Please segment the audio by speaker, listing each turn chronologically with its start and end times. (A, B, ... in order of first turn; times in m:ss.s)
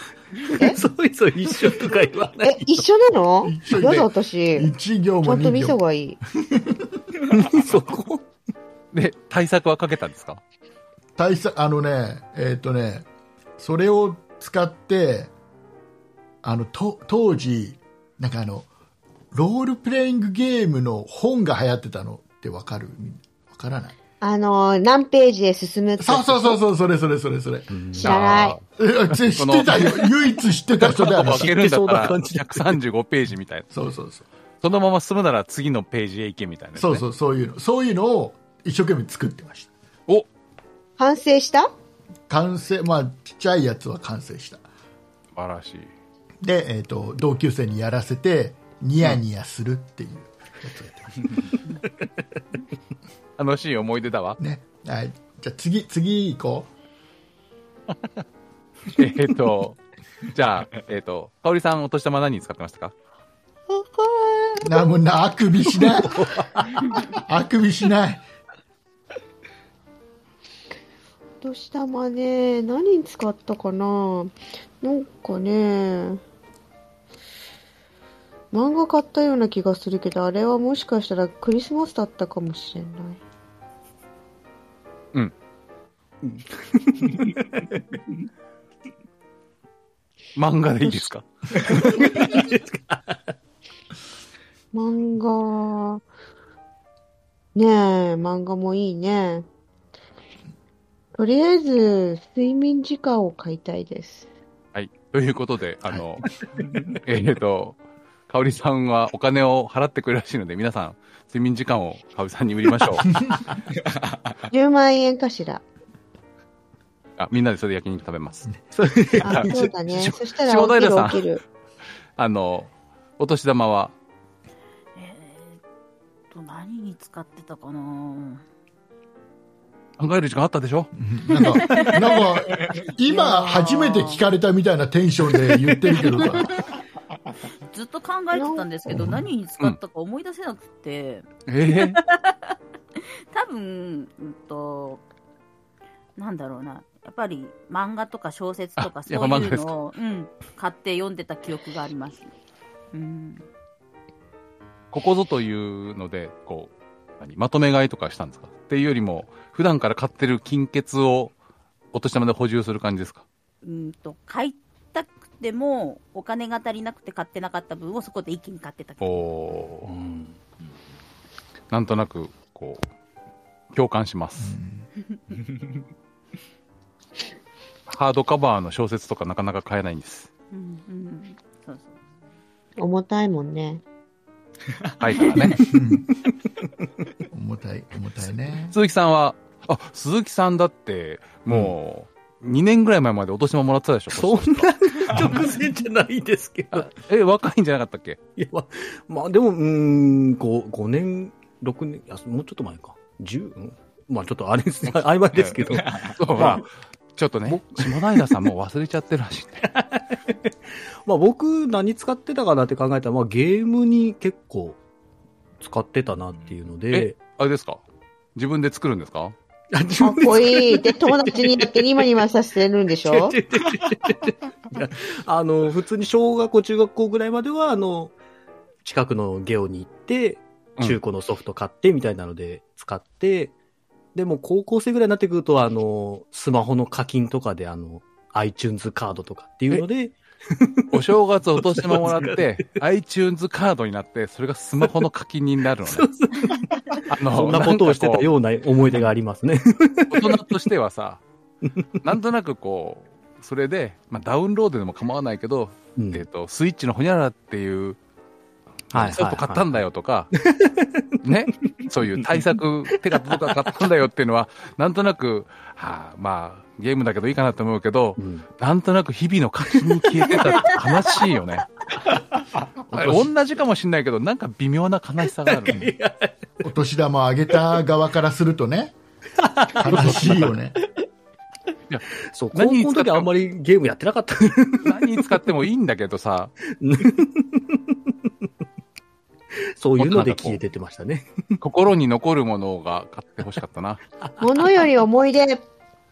0:00.6-0:02.8 A
0:02.4-0:04.7 B
0:03.4-0:05.8 C
0:05.2-0:06.2 B
0:06.4-0:07.0 C
0:07.3-0:08.2 A
0:08.9-0:10.4 D
0:11.2-0:13.1 C
0:13.6-0:15.3 C
0:16.4-0:18.7 C
0:19.3-0:24.0 C
0:24.2-0:26.6 B
0:26.0-0:31.5 C
0:27.7-0:28.1 A
0:28.0-0:28.6 B
0:28.0-0:28.6 D
0:29.4-0:30.1 D
0:30.8-0:33.7 D
0:31.0-0:32.8 A
0:33.7-0:34.2 C
0:34.6-0:37.0 D
0:36.8-0:39.7 C
0:41.0-0:41.7 B
0:42.3-0:44.6 C
0:45.4-0:45.9 D
0:46.4-0:51.4 C
0:53.4-0:54.4 D
0:54.4-0:56.7 C
0:58.9-1:02.9 D
1:03.7-1:04.7 B
1:04.6-1:06.4 C
1:05.9-1:06.7 A
1:06.9-1:08.2 C
1:11.4-1:16.2 B
1:18.5-1:23.2 B
1:26.2-1:28.0 A
1:30.4-1:32.1 D
1:31.6-1:33.3 A
1:34.7-1:36.0 B
1:37.6-1:39.5 B
1:41.2-1:44.3 B
1:44.8-1:46.3 D
1:47.0-1:53.3 D
1:54.5-1:55.6 B
1:57.2-1:58.5 D
1:58.8-1:59.7 A
1:59.2-2:01.3 D
1:59.2-2:01.4 B
2:02.2-2:03.9 D
2:05.0-2:05.6 E
2:06.3-2:08.4 E
2:10.0-2:10.9 D
2:11.0-2:16.6 C
2:11.4-2:14.2 E
2:17.7-2:25.0 E
2:18.3-2:18.7 B
2:21.5-2:22.0 D
2:26.2-2:32.3 E
2:28.8-2:29.7 D
2:32.9-2:33.5 E
2:34.9-2:41.3 D
2:41.9-2:43.2 D
2:43.6-2:49.2 E
2:49.0-2:49.9 D
2:49.9-2:50.4 A
2:51.7-2:52.8 D
2:53.7-2:54.6 D
2:54.4-2:54.9 C
2:57.9-3:00.3 D
3:00.5-3:02.0 E
3:02.8-3:03.8 B
3:05.0-3:05.6 D
3:05.6-3:06.1 C
3:07.3-3:08.8 C
3:08.7-3:15.2 D
3:14.1-3:16.9 A
3:16.7-3:18.2 D
3:18.4-3:26.6 A
3:25.3-3:29.7 D
3:27.5-3:28.5 A
3:29.6-3:30.5 A
3:31.0-3:34.8 A
3:35.6-3:37.2 A
3:36.9-3:37.8 D
3:38.4-3:39.4 D
3:39.7-3:41.7 A
3:40.0-3:43.4 B
3:43.1-3:48.1 A
3:48.8-3:53.6 A
3:54.2-4:00.8 A
4:00.9-4:06.1 D
4:01.6-4:02.4 A
4:05.8-4:10.6 A
4:07.1-4:08.3 D
4:10.1-4:11.2 D
4:12.0-4:18.0 D
4:16.0-4:16.2 A
4:18.9-4:20.3 D
4:18.9-4:19.8 A
4:20.4-4:21.1 A
4:21.2-4:31.7 D
4:21.9-4:22.6 A
4:23.1-4:23.8 A
4:28.2-4:28.5 A
4:29.7-4:31.4 A
4:32.9-4:35.9 D
4:33.0-4:33.2 A
4:35.3-4:36.4 A
4:36.6-4:39.0 C
4:39.4-4:40.5 A
4:39.8-4:40.8 C
4:39.9-4:40.2 D
4:41.9-4:43.3 D
4:42.3-4:45.4 A
4:44.8-4:46.5 D
4:46.8-4:48.3 A
4:49.8-4:51.3 A
4:50.0-4:50.6 D
4:51.6-4:54.0 D
4:54.4-4:55.6 B